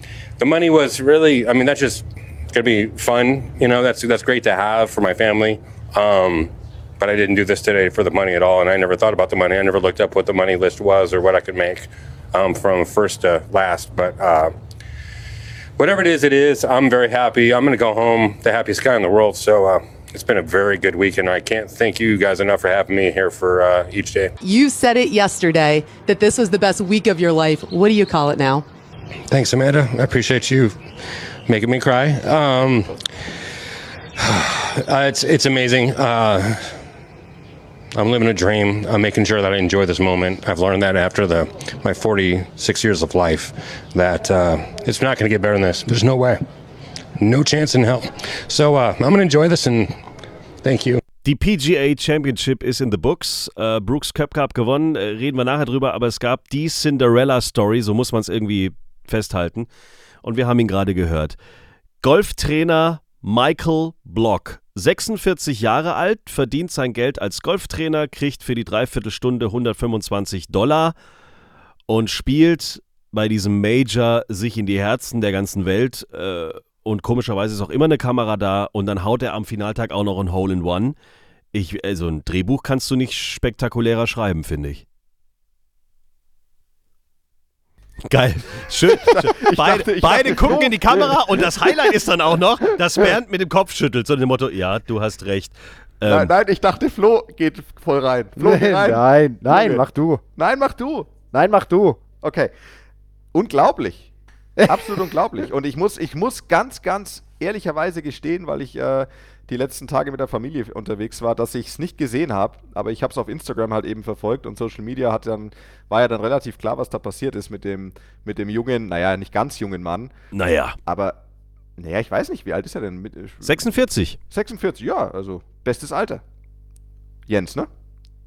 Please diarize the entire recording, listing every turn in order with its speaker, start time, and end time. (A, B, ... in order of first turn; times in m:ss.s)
0:00.4-0:14.5 A
0:15.8-0:24.3 A
0:24.4-0:28.6 B
0:29.3-0:30.8 A
0:31.5-0:32.9 A
0:34.2-0:36.8 A
0:37.9-0:46.4 A
0:47.2-0:50.0 A
0:50.6-0:51.0 A
0:51.2-0:59.7 C
1:00.2-1:01.4 C
1:02.0-1:10.9 C
1:11.9-1:20.9 C
1:21.5-1:24.8 C
1:28.0-1:36.3 C
1:28.9-1:31.5 D
1:36.0-1:39.8 D
1:38.4-1:40.2 E
1:40.4-1:41.1 D
1:41.3-1:42.0 E
1:42.2-1:42.5 D
1:43.3-1:44.1 D
1:44.6-1:45.1 E
1:44.6-2:00.1 D
2:00.3-2:00.8 C
2:00.8-2:01.2 D
2:01.8-2:03.6 D
2:03.4-2:04.2 C
2:04.3-2:06.2 D
2:07.3-2:07.7 D